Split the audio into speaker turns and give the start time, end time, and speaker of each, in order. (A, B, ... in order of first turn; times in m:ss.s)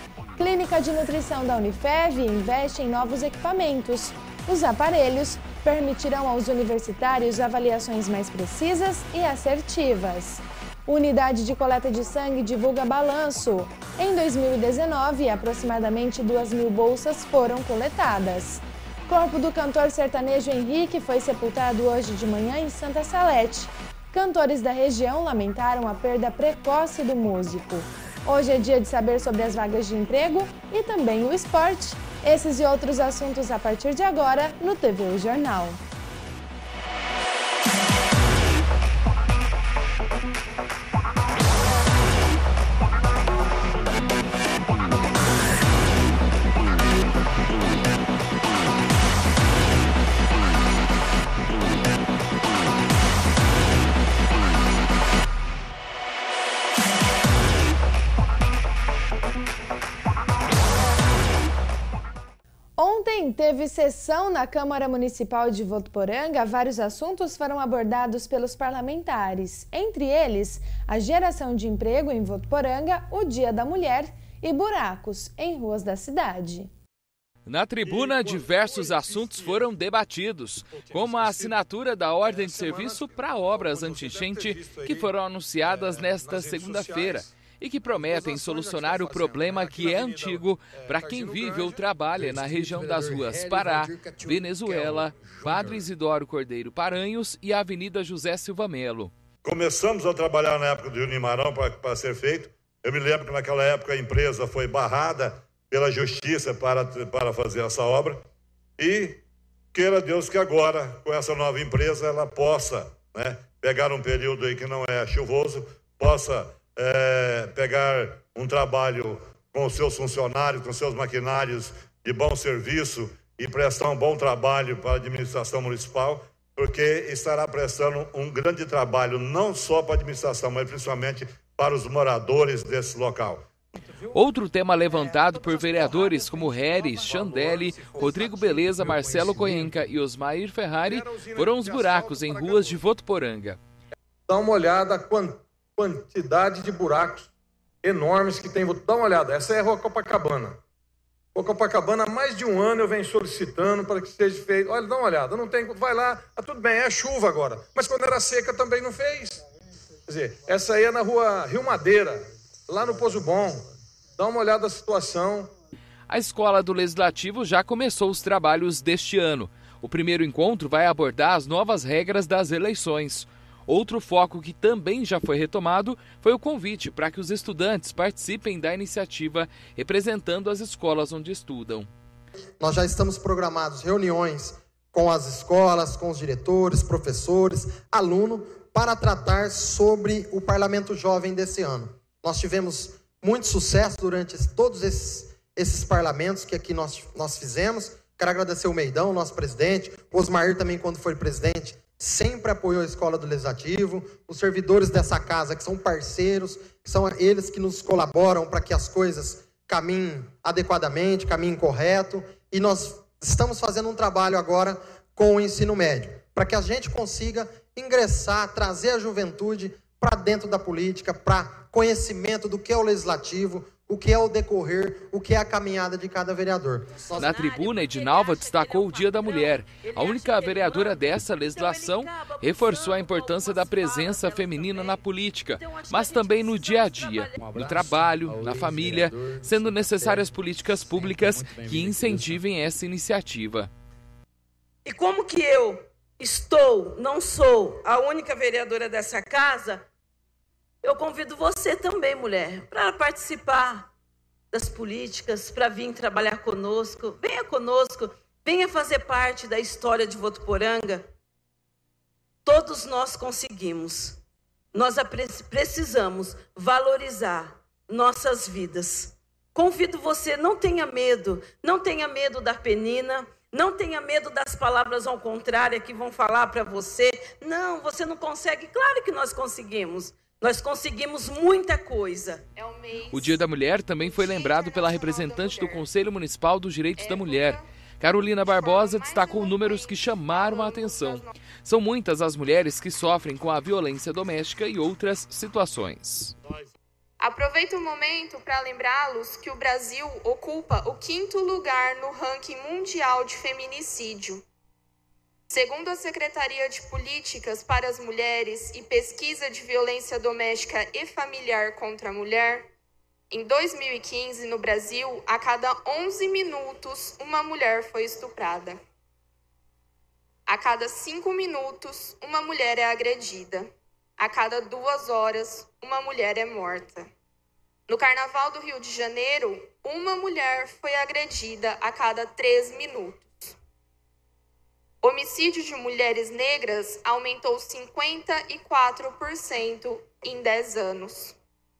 0:00.4-0:35.8 A
1:02.8-1:16.7 A
1:17.4-1:39.1 B
1:17.8-1:19.7 C
1:20.7-1:21.6 C
1:22.2-1:25.1 C
1:25.6-1:27.3 C
1:27.9-1:35.8 C
1:39.4-1:48.2 D
1:48.8-1:49.2 D
1:49.7-2:13.4 D
2:14.1-2:23.6 B
2:14.9-2:19.7 C
2:20.8-2:22.8 C
2:24.3-2:27.3 C
2:27.8-2:30.6 C
2:31.3-2:39.4 C
2:40.1-2:43.6 C
2:44.2-2:45.5 C
2:46.1-3:01.9 B
3:02.6-3:47.2 E
3:47.2-3:55.0 F
3:47.2-4:03.7 B
3:55.6-3:57.6 F
4:04.8-4:09.8 F
4:10.8-4:13.9 F
4:14.5-4:21.0 F
4:22.4-4:24.2 F
4:24.7-4:42.4 F
4:42.6-4:43.4 G
4:43.1-4:56.3 B
4:44.0-4:45.8 G
4:47.0-4:47.6 G
4:48.4-4:51.3 G
4:57.2-5:04.4 G
5:05.5-5:12.6 G
5:13.3-5:18.8 G
5:20.5-5:27.1 G
5:27.9-5:33.5 G
5:35.0-5:41.4 G